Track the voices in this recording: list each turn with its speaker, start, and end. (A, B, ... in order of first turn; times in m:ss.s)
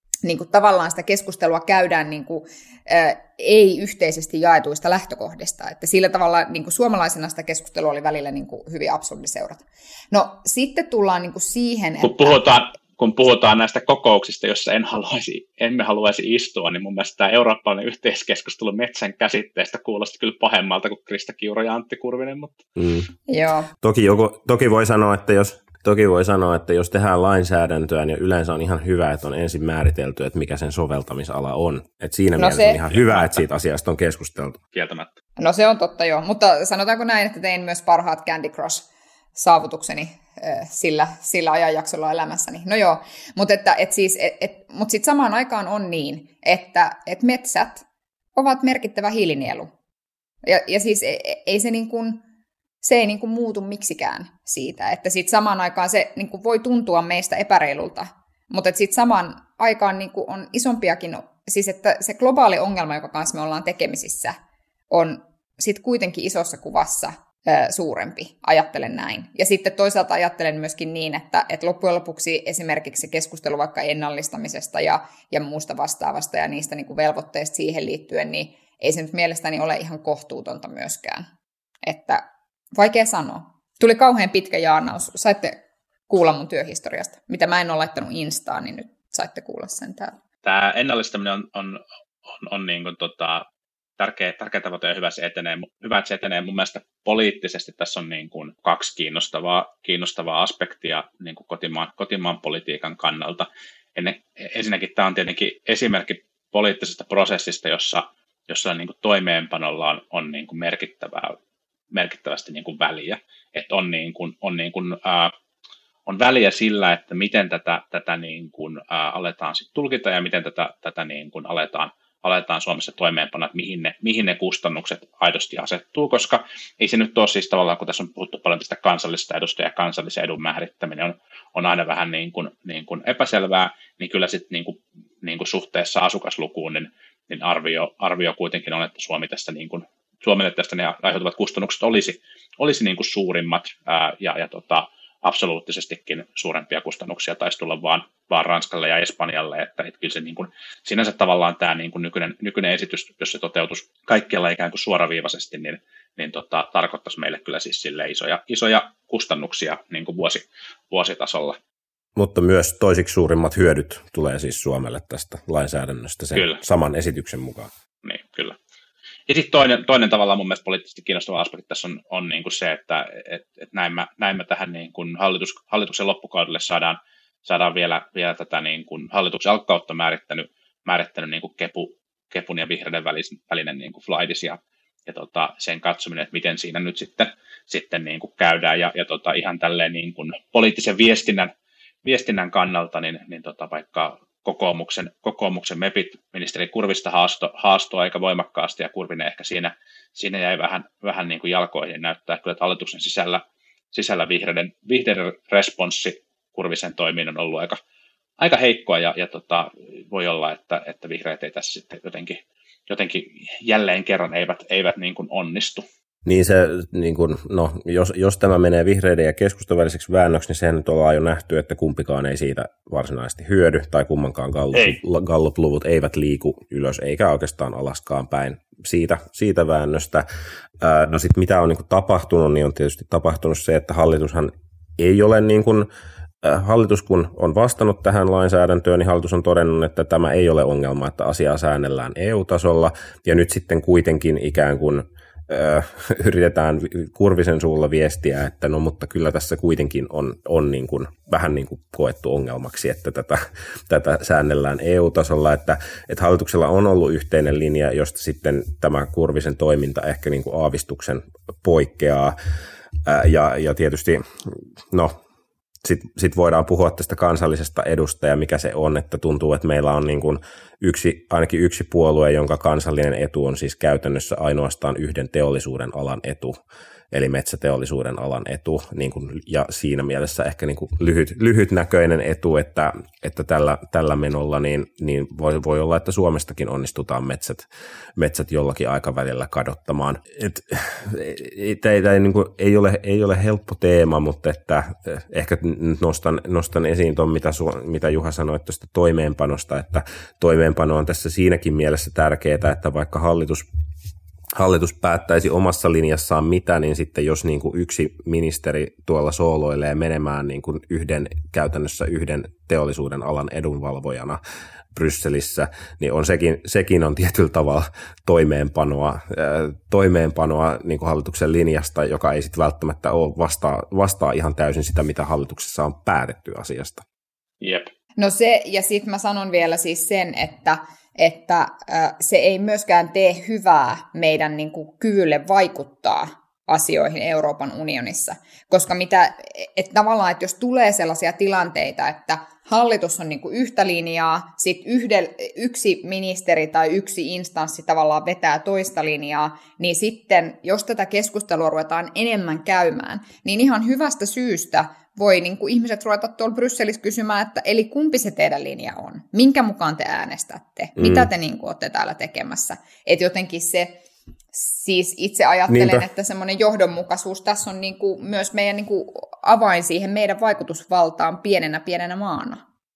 0:00.2-0:12.4 A
0:12.0-0:22.6 B
0:22.8-0:23.1 C
0:23.3-0:23.7 A
0:23.8-0:34.6 C
0:32.4-0:32.8 A
0:32.9-0:33.4 B
0:34.7-0:35.1 B
0:35.4-0:47.8 A
0:48.4-0:49.7 A
0:50.4-0:52.2 A
0:52.8-1:04.4 A
1:04.9-1:21.3 A
1:21.8-1:22.2 A
1:22.7-1:25.6 A
1:26.1-1:30.2 A
1:30.4-1:33.5 B
1:34.0-1:51.4 B
1:51.9-1:55.3 B
1:56.1-2:41.6 B
2:42.2-2:47.7 C
2:46.4-2:46.6 B
2:48.0-2:48.6 B
2:49.3-3:11.5 B
3:12.0-3:23.4 B
3:23.9-3:27.8 B
3:28.4-3:35.8 B
3:36.2-3:50.3 C
3:50.8-3:55.9 C
3:56.4-4:22.4 C
4:23.1-4:25.2 C
4:25.8-4:36.6 C
4:37.1-5:03.7 C
5:04.6-5:14.4 C
5:14.9-5:27.0 C
5:27.6-5:27.9 B
5:28.2-6:04.0 A
6:01.0-6:01.3 C
6:04.5-6:12.6 A
6:05.7-6:06.0 C